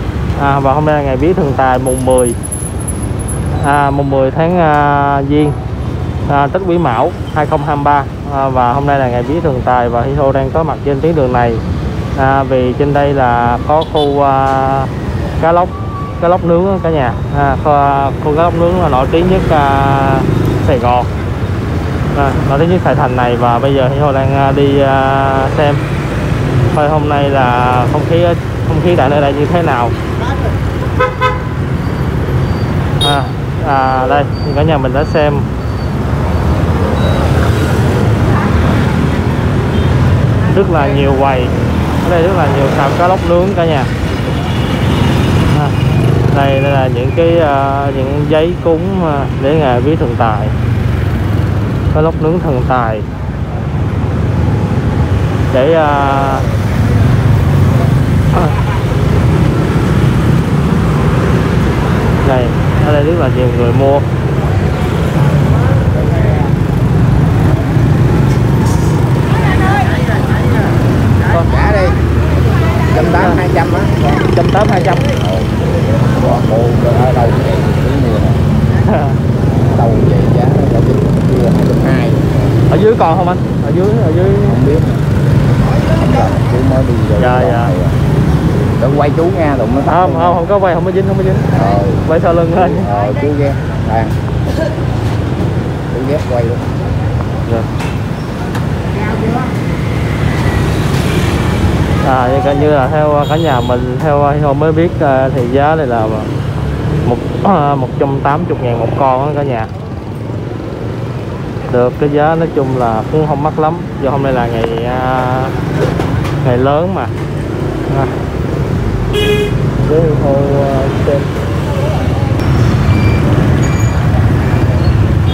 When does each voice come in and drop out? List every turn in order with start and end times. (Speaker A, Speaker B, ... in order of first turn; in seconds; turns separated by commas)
Speaker A: 0.3-2.4, Speaker A: 3.5-5.6, Speaker A: 6.3-11.6, Speaker A: 12.1-21.1, Speaker A: 22.1-25.8, Speaker A: 26.7-29.9, Speaker A: 33.0-35.5, Speaker A: 40.5-43.9, Speaker A: 45.5-45.8, Speaker A: 46.3-50.5, Speaker A: 51.9-53.0, Speaker A: 55.5-56.5, Speaker A: 62.2-64.0, Speaker B: 71.3-72.0, Speaker B: 72.8-74.3, Speaker A: 74.3-75.1, Speaker B: 75.0-75.5, Speaker B: 76.1-78.4, Speaker A: 78.8-79.2, Speaker B: 79.5-82.2, Speaker A: 82.7-84.6, Speaker B: 84.5-85.0, Speaker B: 85.9-88.0, Speaker A: 87.2-87.7, Speaker B: 88.8-90.4, Speaker A: 89.9-92.9, Speaker B: 91.5-92.0, Speaker B: 92.6-94.2, Speaker B: 95.9-96.7, Speaker A: 102.0-106.3, Speaker A: 107.0-109.7, Speaker A: 111.7-115.6, Speaker A: 116.4-117.1, Speaker A: 117.9-118.1, Speaker A: 119.8-121.3